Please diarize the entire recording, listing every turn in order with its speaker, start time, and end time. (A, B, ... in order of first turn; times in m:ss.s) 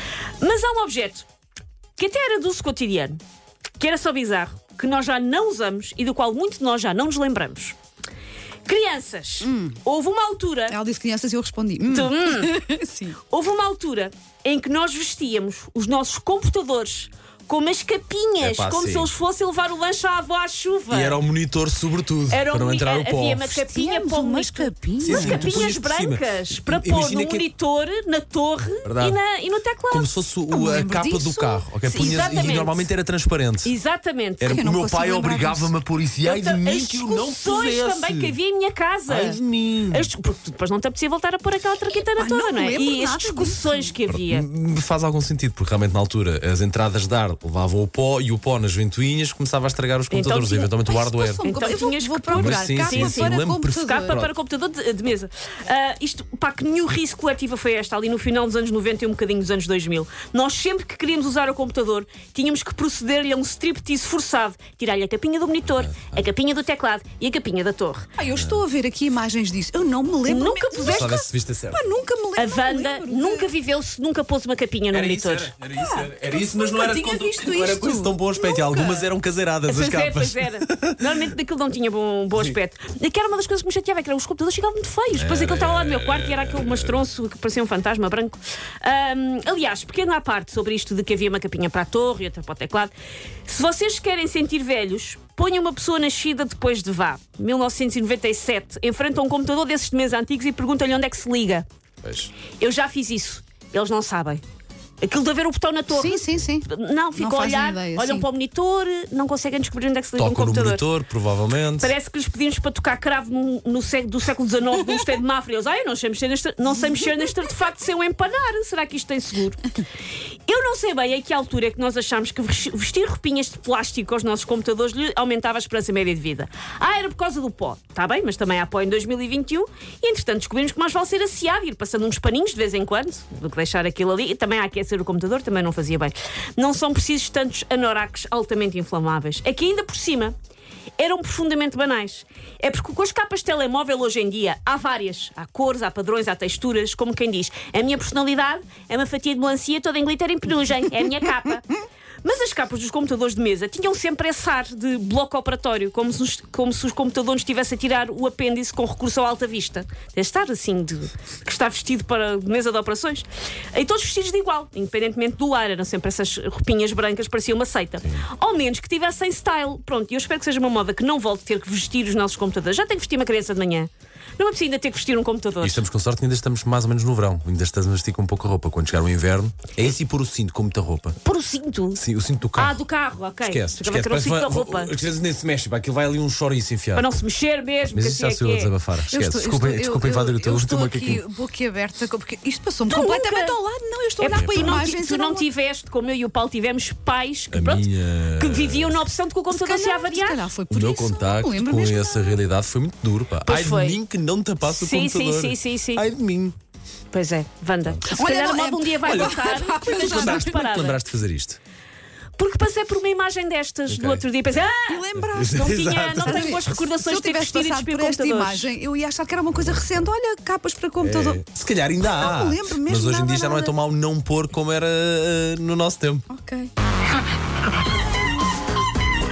0:00.4-0:01.3 A
0:02.0-0:03.2 A
0:03.8-0:07.8 A
0:08.6-0:10.8 A
0:09.4-0:09.8 B
0:10.7-0:13.2 B
0:11.9-0:12.6 A
0:13.3-0:21.2 A
0:18.4-0:19.1 C
0:20.9-0:23.6 C
0:22.3-0:30.2 A
0:23.6-0:25.6 B
0:25.0-0:27.5 C
0:28.8-0:29.2 C
0:29.9-0:33.7 C
0:30.5-0:31.6 B
0:31.8-0:32.9 A
0:33.6-0:34.6 A
0:34.4-0:38.4 C
0:34.4-0:35.8 B
0:36.2-0:44.4 A
0:39.1-0:40.1 C
0:42.2-0:44.0 B
0:44.1-0:51.4 C
0:50.1-0:50.7 A
0:50.9-0:54.2 B
0:51.4-1:08.1 A
0:52.3-0:54.3 C
1:05.6-1:06.2 C
1:08.2-1:13.5 B
1:08.3-1:08.6 C
1:10.2-1:11.1 A
1:10.9-1:11.8 C
1:12.4-1:15.5 A
1:14.9-1:21.0 C
1:15.7-1:18.9 B
1:19.7-1:32.9 A
1:25.1-1:27.0 C
1:33.4-1:41.6 A
1:42.0-1:42.3 C
1:42.6-1:44.4 A
1:45.0-1:50.8 A
1:45.9-1:48.3 B
1:50.2-1:51.9 C
1:51.8-1:59.7 A
2:00.4-2:20.3 A
2:21.0-2:31.7 A
2:32.2-2:55.8 A
2:55.6-3:01.2 C
3:01.2-3:02.0 A
3:02.0-3:02.8 C
3:02.6-3:04.9 A
3:03.4-3:07.1 C
3:06.9-3:08.7 A
3:07.9-3:11.2 C
3:09.1-3:15.4 B
3:12.9-3:13.6 A
3:14.2-3:20.5 A
3:14.3-3:14.8 C
3:17.5-3:19.0 C
3:19.5-3:22.4 B
3:20.7-3:26.5 C
3:23.4-3:24.0 A
3:24.7-3:26.0 A
3:27.1-3:31.0 A
3:28.1-3:30.6 B
3:29.0-3:31.6 C
3:32.4-3:38.7 A
3:33.9-3:34.2 C
3:34.8-3:41.4 B
3:35.1-3:36.7 C
3:39.5-3:40.1 C
3:41.0-3:46.3 C
3:42.0-3:43.7 B
3:46.3-3:46.7 B